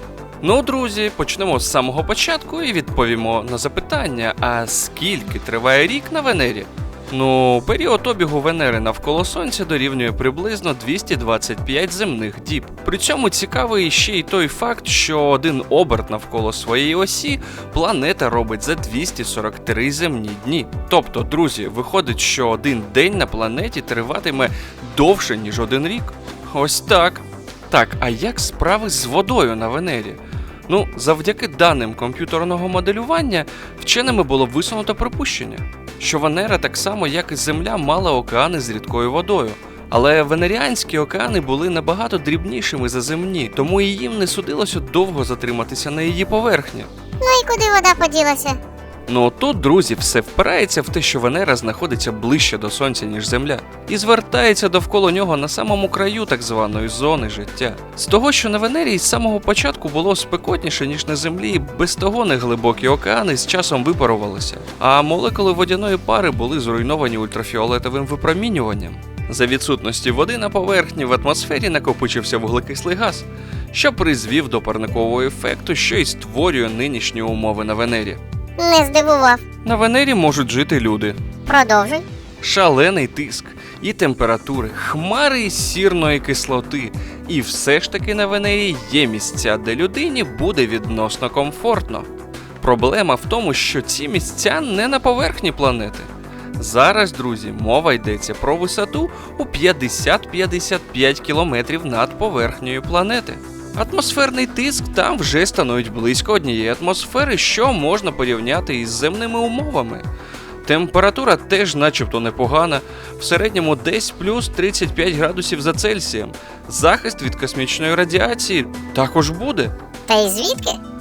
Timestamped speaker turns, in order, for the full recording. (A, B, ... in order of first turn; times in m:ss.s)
0:00.4-0:46.9 A
0:47.2-0:48.6 B
0:49.1-1:18.2 A
1:18.6-1:19.4 B
1:19.6-1:21.2 A
1:21.5-1:22.0 B
1:22.4-1:32.1 A
1:32.6-1:50.1 A
1:50.6-1:59.7 A
2:00.1-2:00.8 B